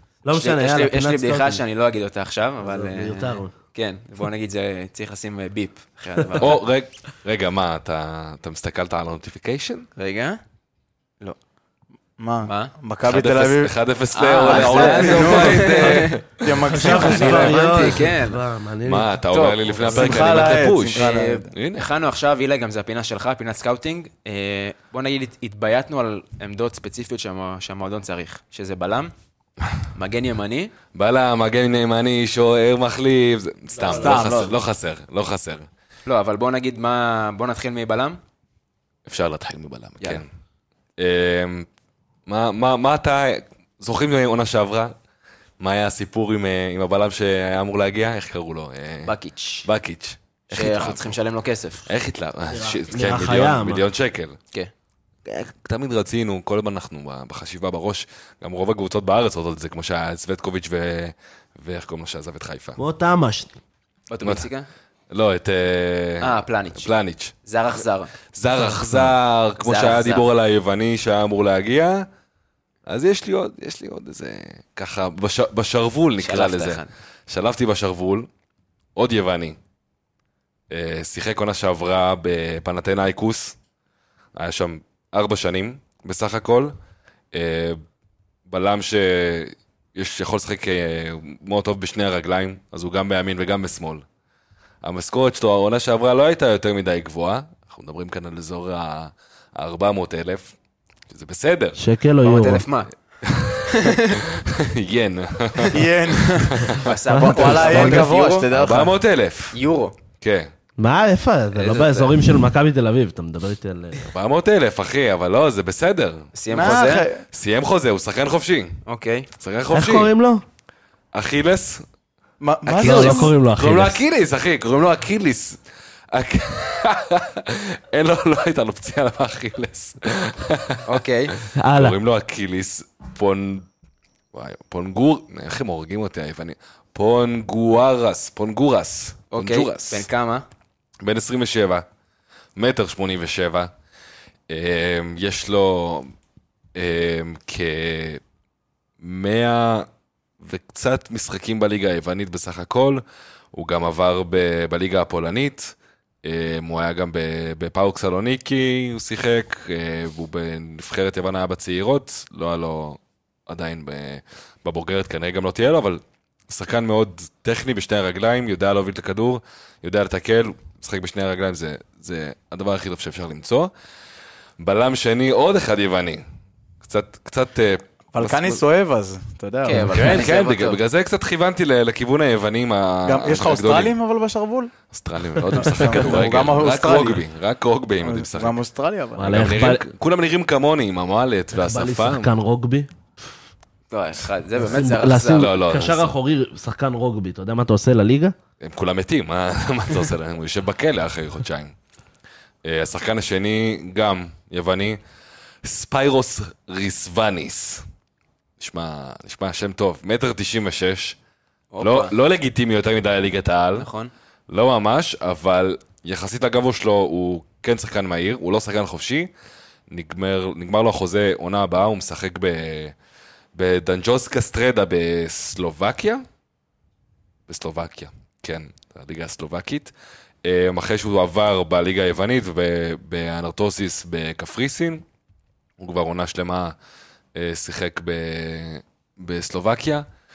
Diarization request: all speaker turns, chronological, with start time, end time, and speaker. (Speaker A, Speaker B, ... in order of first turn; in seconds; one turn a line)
Speaker A: 0.2-1.6
Speaker B: 0.3-6.6
Speaker A: 2.6-3.5
Speaker C: 6.4-9.8
Speaker B: 10.0-10.4
Speaker D: 12.2-13.7
Speaker B: 12.4-12.7
Speaker C: 13.0-17.9
Speaker B: 14.1-16.2
Speaker D: 14.4-17.9
Speaker A: 16.7-19.1
Speaker B: 16.8-18.4
Speaker C: 18.8-21.9
Speaker B: 19.3-20.3
Speaker D: 19.9-21.5
Speaker B: 20.9-29.1
Speaker B: 29.9-30.7
Speaker C: 30.9-35.7
Speaker B: 33.8-34.3
Speaker D: 33.8-34.5
Speaker B: 36.0-38.2
Speaker C: 39.1-40.2
Speaker C: 41.0-41.7
Speaker C: 42.3-44.9
Speaker C: 45.6-49.1
Speaker B: 49.0-49.7
Speaker C: 49.6-51.1
Speaker B: 50.5-51.9
Speaker C: 51.9-54.4
Speaker A: 52.5-53.8
Speaker C: 55.3-62.8
Speaker A: 62.8-63.5
Speaker B: 64.1-64.7
Speaker C: 64.2-64.5
Speaker C: 65.1-67.3
Speaker B: 66.2-66.9
Speaker B: 67.4-68.1
Speaker C: 68.3-72.1
Speaker A: 68.6-69.1
Speaker B: 69.6-70.2
Speaker C: 72.8-78.3
Speaker B: 76.2-76.9
Speaker C: 79.0-79.6
Speaker C: 80.7-83.5
Speaker C: 84.3-86.7
Speaker C: 87.3-87.8
Speaker C: 88.5-94.0
Speaker C: 94.8-100.5
Speaker C: 101.1-101.8
Speaker A: 101.8-102.6
Speaker B: 102.2-102.9
Speaker C: 103.2-106.9
Speaker B: 103.7-104.2
Speaker D: 105.7-108.9
Speaker B: 106.8-108.5
Speaker A: 107.1-108.1
Speaker C: 107.5-107.9
Speaker C: 108.5-109.5
Speaker B: 109.5-109.9
Speaker C: 110.2-110.5
Speaker A: 110.8-114.1
Speaker B: 111.5-112.2
Speaker C: 114.0-116.3
Speaker B: 116.3-117.0
Speaker D: 116.5-117.2
Speaker C: 117.3-118.8
Speaker B: 118.8-119.3
Speaker C: 119.4-120.1
Speaker A: 119.7-120.4
Speaker C: 121.1-121.8
Speaker D: 122.4-123.3
Speaker A: 122.7-124.0
Speaker C: 122.7-125.6
Speaker C: 126.1-131.0
Speaker B: 130.8-131.3
Speaker A: 131.6-132.0
Speaker C: 131.7-133.7
Speaker C: 134.3-140.1
Speaker B: 139.3-140.4
Speaker C: 141.0-141.8
Speaker C: 142.6-143.7
Speaker C: 144.5-146.1
Speaker C: 146.7-148.2
Speaker C: 149.0-149.9
Speaker C: 150.4-153.0
Speaker C: 153.5-173.7
Speaker C: 174.6-176.2
Speaker C: 176.8-178.6
Speaker D: 178.1-180.2
Speaker B: 179.6-180.8
Speaker C: 179.9-183.9
Speaker D: 183.1-184.7
Speaker C: 184.9-188.6
Speaker D: 185.5-187.2
Speaker D: 188.0-189.4
Speaker A: 189.2-189.8
Speaker C: 189.2-192.3
Speaker A: 191.5-192.9
Speaker B: 193.9-195.5
Speaker A: 194.6-198.3
Speaker C: 195.2-196.1
Speaker C: 198.6-201.7
Speaker C: 202.6-205.0
Speaker C: 205.6-207.8
Speaker C: 208.6-211.2
Speaker B: 211.7-212.1
Speaker C: 211.8-213.9
Speaker B: 213.8-214.1
Speaker C: 214.5-219.3
Speaker C: 219.9-222.9
Speaker C: 223.5-226.2
Speaker C: 227.5-229.9
Speaker C: 230.4-235.0
Speaker C: 235.8-236.7
Speaker C: 237.3-240.0